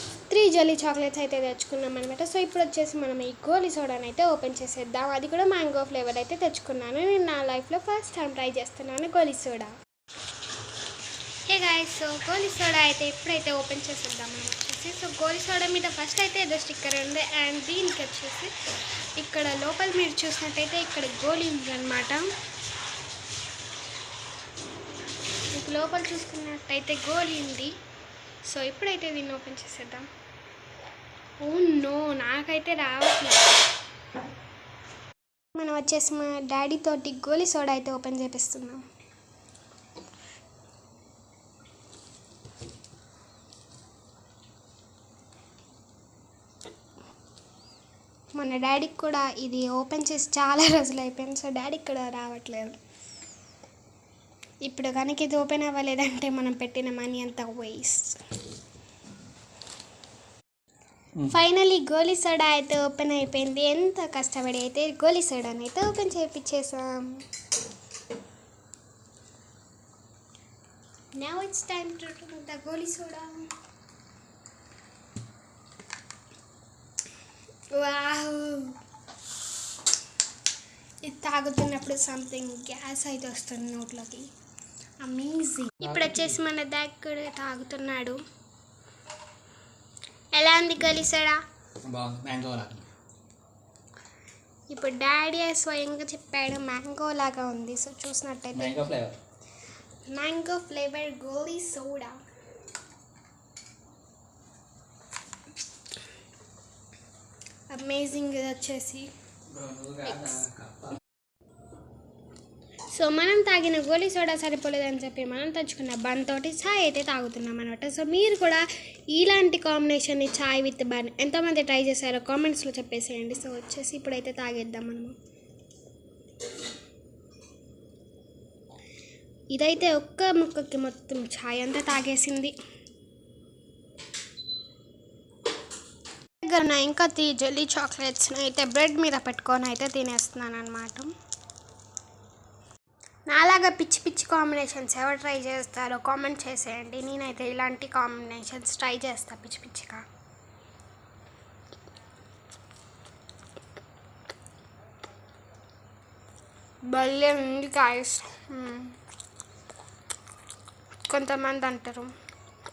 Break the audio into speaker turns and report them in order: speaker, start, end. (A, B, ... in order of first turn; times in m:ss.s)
0:00.3-0:09.7 A
0:11.5-0:18.5 A
0:19.2-0:22.3 A
0:25.5-0:27.7 A
0:28.5-0:30.1 A
0:31.4-0:33.6 A
0:35.6-0:38.8 A
0:48.4-0:52.8 A
0:54.6-0:58.2 A
1:01.3-1:07.2 A
1:11.2-1:13.4 A
1:17.7-1:18.8 A
1:21.0-1:24.3 A
1:25.0-1:28.2 A
1:25.8-1:26.3 B
1:30.3-1:31.4 A
1:31.9-1:32.9 B
1:34.7-1:38.8 A
1:38.6-1:39.2 B
1:40.1-1:42.2 A
1:47.7-1:49.1 A
1:49.5-1:51.0 B
1:52.9-2:05.2 A
2:09.5-2:12.5 A
2:16.4-2:21.1 A
2:23.3-2:30.0 A
2:36.9-2:39.0 A
2:41.1-2:42.1 A